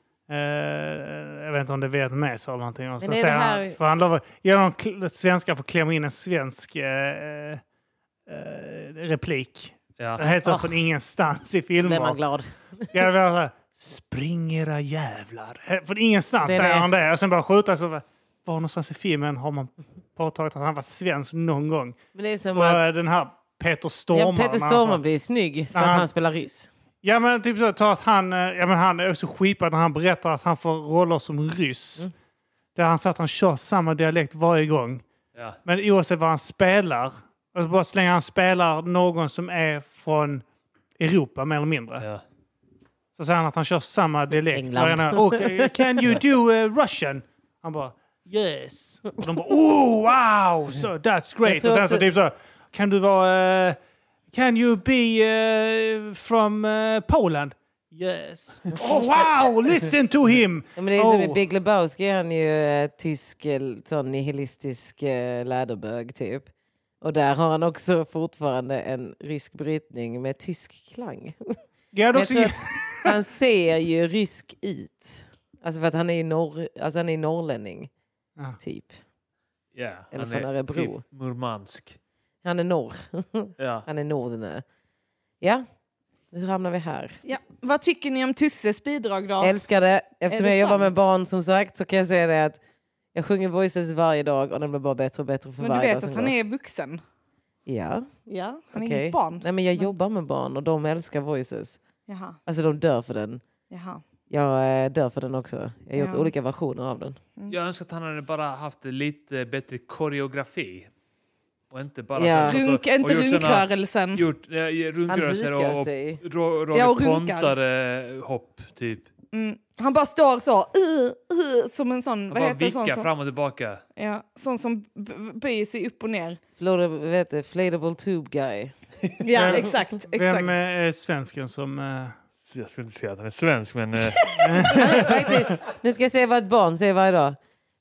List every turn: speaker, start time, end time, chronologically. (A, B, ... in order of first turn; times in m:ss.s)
0:00.3-0:07.6 A
0:03.0-0:03.8 B
0:08.3-0:12.2 A
0:10.3-0:10.7 B
0:11.8-0:12.9 B
0:12.9-0:22.0 A
0:16.4-0:16.9 B
0:22.1-0:22.9 B
0:22.5-0:25.0 A
0:24.1-0:26.7 B
0:25.7-0:26.1 A
0:27.0-0:32.1 A
0:32.7-0:35.0 A
0:35.6-0:40.4 A
0:41.0-0:42.0 A
0:43.1-0:53.8 A
0:44.5-0:45.7 B
0:51.4-0:52.0 B
0:54.3-1:01.4 A
1:00.8-1:06.5 B
1:07.0-1:11.5 B
1:11.9-1:13.1 A
1:12.1-1:17.9 B
1:18.6-1:18.9 B
1:19.7-1:22.0 C
1:20.1-1:21.0 B
1:22.4-1:24.6 B
1:23.6-1:23.8 C
1:26.3-1:27.2 B
1:27.2-1:29.5 D
1:29.4-1:32.6 B
1:30.3-1:30.9 D
1:33.1-1:36.3 B
1:35.6-1:37.0 D
1:37.6-1:38.1 B
1:38.3-1:39.9 D
1:38.7-1:41.8 B
1:42.1-1:42.4 D
1:42.4-1:43.4 B
1:43.7-1:44.0 D
1:44.3-1:47.2 B
1:46.0-1:46.3 D
1:47.5-1:50.9 C
1:51.7-1:59.1 C
1:52.1-1:52.6 B
1:52.4-1:54.2 D
1:55.1-1:56.2 B
1:56.7-1:57.5 D
1:59.3-2:03.1 D
2:02.3-2:03.8 C
2:04.0-2:06.4 D
2:06.6-2:08.7 B
2:09.2-2:10.6 D
2:09.3-2:12.2 A
2:12.4-2:14.3 C
2:14.1-2:15.5 D
2:14.4-2:15.3 A
2:14.6-2:17.4 B